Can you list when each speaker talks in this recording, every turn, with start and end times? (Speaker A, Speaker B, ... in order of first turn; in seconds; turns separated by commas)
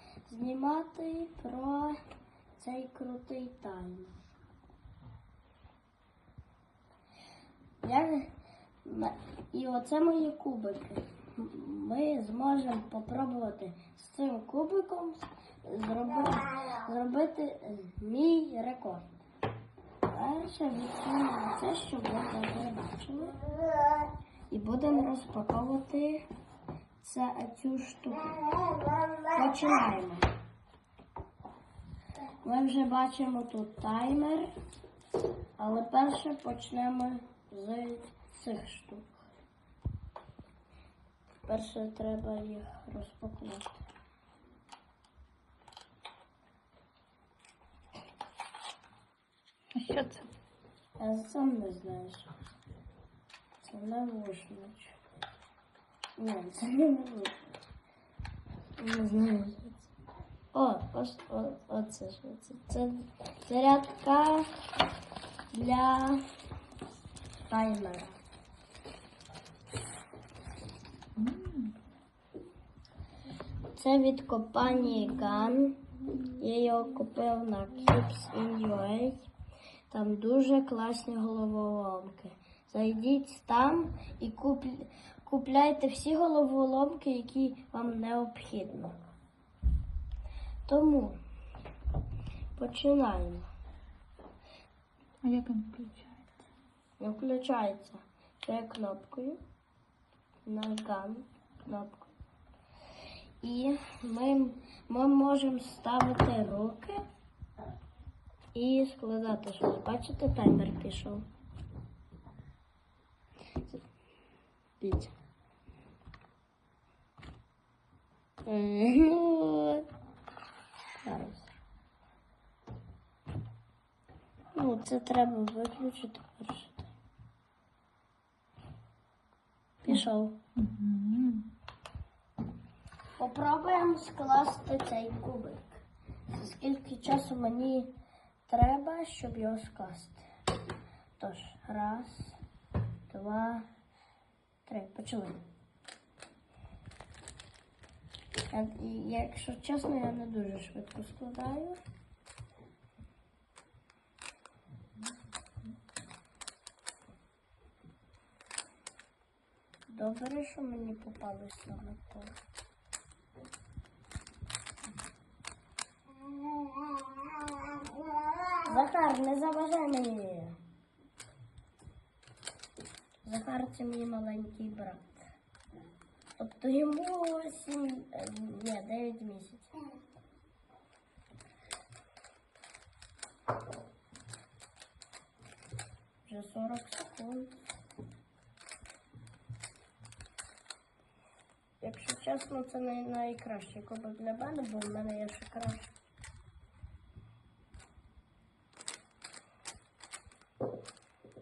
Speaker A: 0.2-2.0, Speaker A: 2.6-4.2, Speaker A: 7.8-8.3, Speaker A: 8.8-19.1, Speaker A: 20.1-23.4, Speaker A: 24.5-26.2, Speaker A: 27.0-28.5, Speaker A: 29.2-30.2, Speaker A: 32.4-34.5, Speaker A: 35.6-39.1, Speaker A: 41.4-43.8, Speaker B: 49.7-50.3, Speaker A: 51.0-52.3, Speaker A: 53.6-55.0, Speaker A: 56.2-57.4, Speaker A: 58.8-59.9, Speaker A: 60.5-64.5, Speaker A: 65.5-66.2, Speaker A: 67.5-68.2, Speaker B: 71.2-71.7, Speaker A: 73.7-79.3, Speaker A: 79.9-89.0, Speaker A: 90.7-91.2, Speaker A: 92.5-93.5, Speaker B: 95.2-96.3, Speaker A: 97.0-99.4, Speaker A: 100.4-102.1, Speaker A: 103.4-107.0, Speaker A: 108.5-111.3, Speaker A: 114.8-115.1, Speaker A: 118.4-119.9, Speaker A: 121.0-121.5, Speaker A: 124.5-126.9, Speaker A: 129.8-130.4, Speaker B: 130.6-131.5, Speaker A: 133.2-137.9, Speaker A: 138.5-140.2, Speaker A: 141.2-142.4, Speaker A: 143.1-143.7, Speaker A: 144.6-145.4, Speaker A: 148.5-151.8, Speaker A: 159.9-162.3, Speaker A: 168.6-170.6, Speaker A: 173.2-175.3, Speaker A: 176.4-179.7, Speaker A: 186.2-187.5, Speaker A: 191.8-195.9